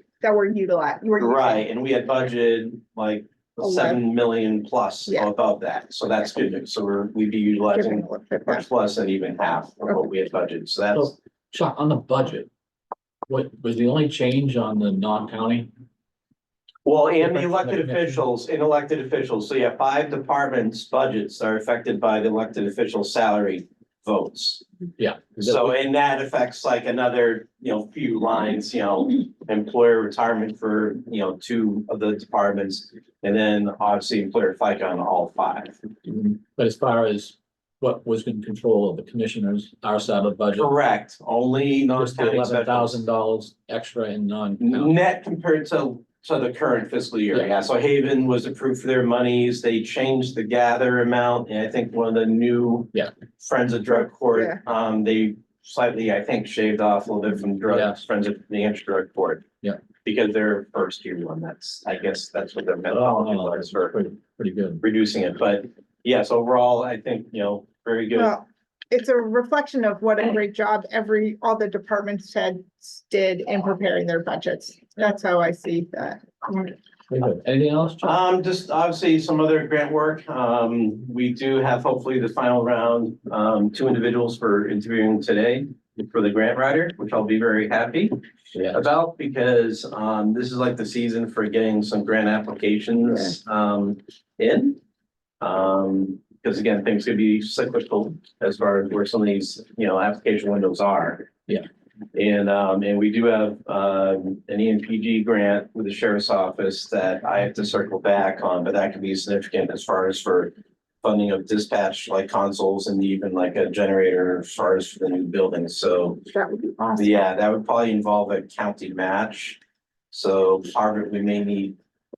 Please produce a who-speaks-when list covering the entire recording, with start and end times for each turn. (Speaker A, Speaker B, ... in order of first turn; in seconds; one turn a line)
Speaker A: 0.2-1.6
Speaker B: 1.2-11.1
Speaker A: 3.6-4.0
Speaker A: 7.7-8.6
Speaker C: 10.9-12.5
Speaker C: 13.3-15.7
Speaker B: 16.8-24.6
Speaker C: 17.2-18.2
Speaker C: 25.0-25.8
Speaker B: 25.4-35.8
Speaker C: 36.0-40.7
Speaker B: 40.5-43.0
Speaker C: 41.9-44.9
Speaker B: 44.6-59.5
Speaker C: 57.7-58.0
Speaker B: 60.0-63.9
Speaker C: 62.9-64.8
Speaker B: 64.8-68.3
Speaker A: 68.1-76.8
Speaker C: 77.1-78.1
Speaker B: 78.0-88.1
Speaker C: 88.5-88.8
Speaker B: 88.7-94.8
Speaker B: 95.4-101.3
Speaker B: 102.1-116.2
Speaker A: 116.3-117.2
Speaker B: 117.0-119.6
Speaker B: 120.1-121.8